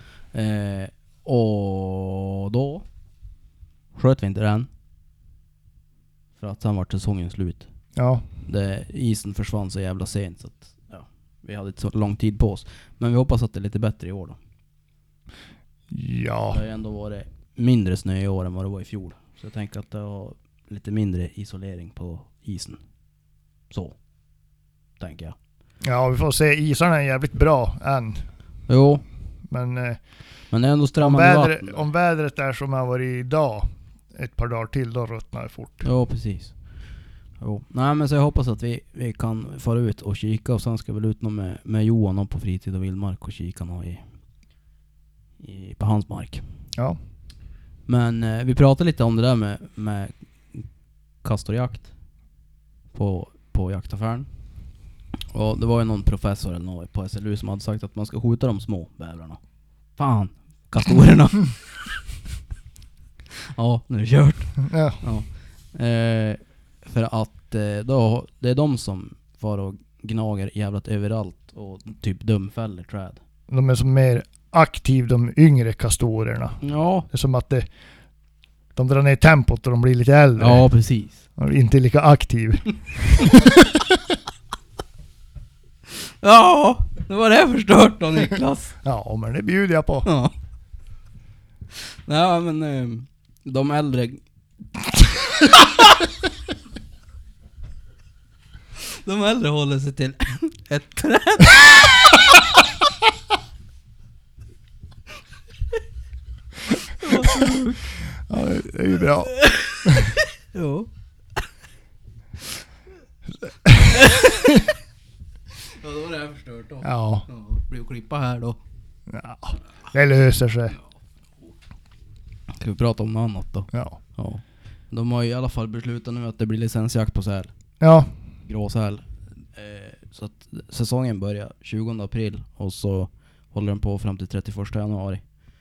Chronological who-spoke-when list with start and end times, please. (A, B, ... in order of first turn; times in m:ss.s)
0:00.3-0:02.8 A
0:04.0-0:04.7 A
0:06.4-0:07.7 A
0:08.0-0:08.2 B
0:08.4-0:14.4 A
0:15.9-0:16.6 B
0:16.5-0:22.8 A
0:23.7-0:24.0 A
0:25.0-0:25.4 A
0:25.8-0:28.2 B
0:28.7-0:29.0 A
0:29.5-0:30.0 B
0:30.5-0:31.9 A
0:31.0-0:35.9 B
0:35.8-0:36.6 A
0:37.4-0:44.0 A
0:45.4-0:46.4 A
0:47.9-0:50.6 A
0:51.2-0:51.9 A
0:52.9-0:54.3 A
0:55.3-0:59.4 A
1:00.0-1:01.9 A
1:03.5-1:13.2 A
1:04.6-1:05.0 B
1:13.5-1:17.7 B
1:16.6-1:17.1 A
1:18.8-1:20.7 B
1:20.4-1:21.2 A
1:21.4-1:23.8 B
1:26.0-1:28.8 A
1:28.8-1:30.1 B
1:30.0-1:30.3 A
1:31.7-1:34.2 A
1:35.0-1:36.1 A
1:38.8-1:42.4 A
1:46.9-1:48.1 A
1:48.3-1:49.4 B
1:49.3-1:50.9 A
1:53.9-1:54.5 A
1:55.6-1:58.6 A
1:56.8-1:57.3 B
1:59.1-2:00.8 B
2:02.5-2:07.5 A
2:03.7-2:04.0 B
2:07.8-2:08.1 B
2:08.4-2:15.2 A